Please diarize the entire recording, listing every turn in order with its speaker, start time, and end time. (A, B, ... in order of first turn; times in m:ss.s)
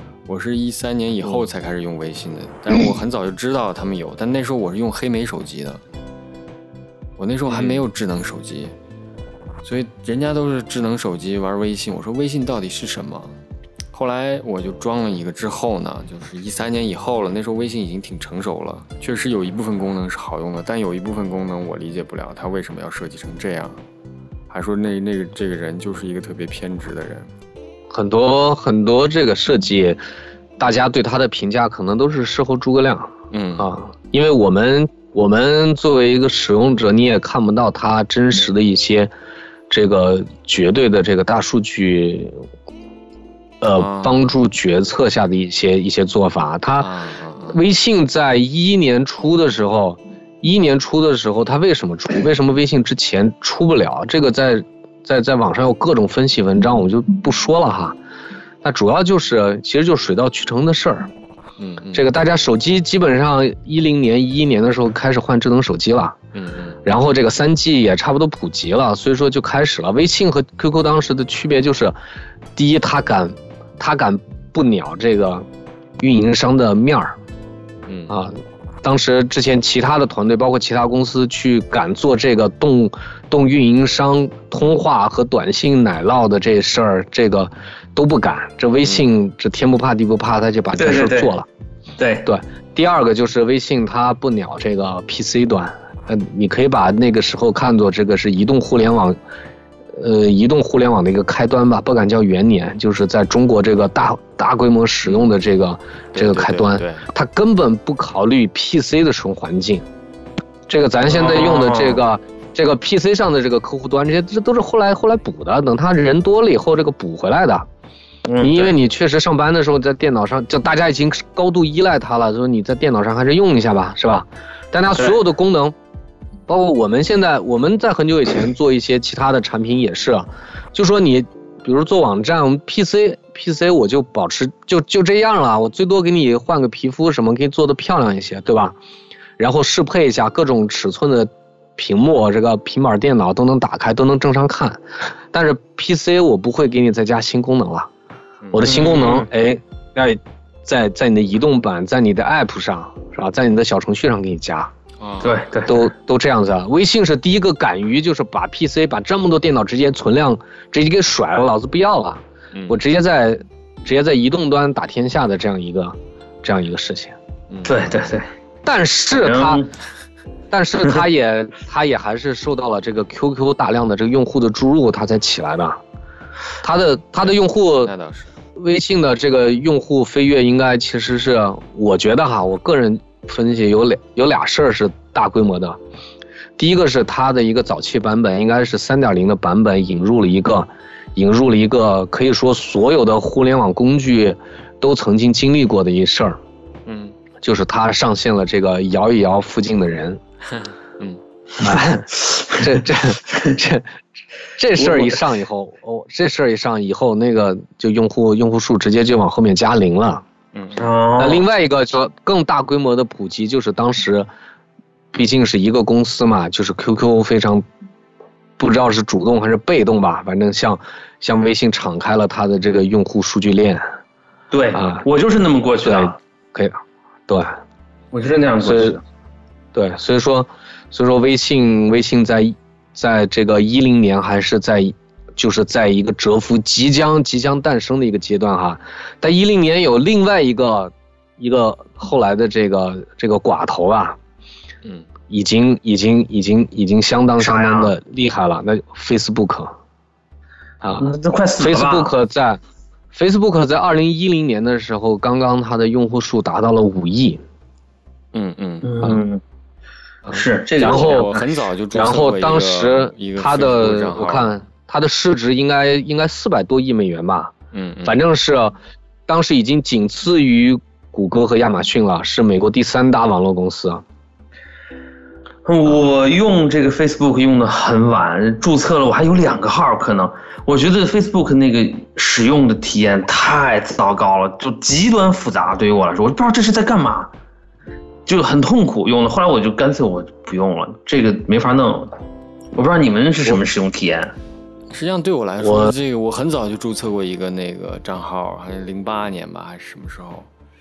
0:00.2-0:05.8 A
0:07.2-0:08.7 A
0:09.6-0:13.4 A
0:13.9-0:23.8 A
0:24.5-0:27.3 A
0:27.9-0:30.0 B
0:30.6-0:39.1 B
0:33.3-0:33.7 A
0:39.7-0:42.4 B
0:43.6-0:46.9 B
0:43.7-0:44.3 A
0:46.8-0:47.6 A
0:47.5-0:58.0 B
0:58.6-1:01.1 B
1:01.6-1:02.1 A
1:01.9-1:06.2 B
1:06.3-1:06.8 A
1:06.8-1:11.9 B
1:12.6-1:15.4 B
1:16.0-1:17.2 B
1:17.9-1:18.1 A
1:18.1-1:31.5 B
1:30.8-1:31.3 C
1:32.0-1:32.3 C
1:32.2-1:39.2 B
1:39.9-1:49.8 B
1:46.1-1:47.0 A
1:50.7-1:57.6 B
1:51.1-1:52.0 C
1:58.2-1:58.7 C
1:58.4-2:05.7 B
2:06.5-2:18.8 B
2:19.4-2:27.9 B
2:28.4-2:28.7 A
2:28.5-2:34.7 B
2:28.6-2:29.3 C
2:35.0-2:35.4 A
2:35.2-2:35.9 C
2:35.7-2:47.1 B
2:47.5-2:48.0 A
2:47.6-2:48.3 C
2:48.6-2:49.6 B
2:49.2-2:49.7 C
2:50.5-2:55.8 B
2:56.6-2:57.9 B
2:57.2-2:58.4 A
2:58.5-3:05.8 B
3:06.6-3:16.4 B
3:16.8-3:17.1 A
3:17.4-3:20.2 B
3:21.6-3:23.9 B
3:24.6-3:30.2 B
3:24.8-3:25.2 C
3:30.5-3:30.8 A
3:30.8-3:31.4 C
3:31.2-3:34.3 B
3:35.1-3:37.6 B
3:38.6-3:43.8 B
3:44.5-3:46.2 C
3:44.7-3:45.0 B
3:45.8-3:47.6 B
3:48.1-3:49.0 C
3:48.6-3:49.0 B
3:49.7-4:04.2 B
4:05.3-4:09.7 B
4:07.4-4:07.9 C
4:10.8-4:11.1 B
4:11.0-4:12.1 C
4:11.6-4:12.6 B
4:13.1-4:17.4 B
4:18.3-4:19.0 A
4:18.8-4:19.4 C
4:20.3-4:21.3 B
4:20.3-4:21.4 C
4:20.8-4:24.5 A
4:21.9-4:27.5 B
4:27.7-4:28.2 A
4:28.0-4:28.8 B
4:29.3-4:34.0 B
4:35.6-4:47.3 C
4:48.2-4:52.1 C
4:52.7-4:54.3 C
4:54.9-5:00.5 A
4:55.6-4:55.9 B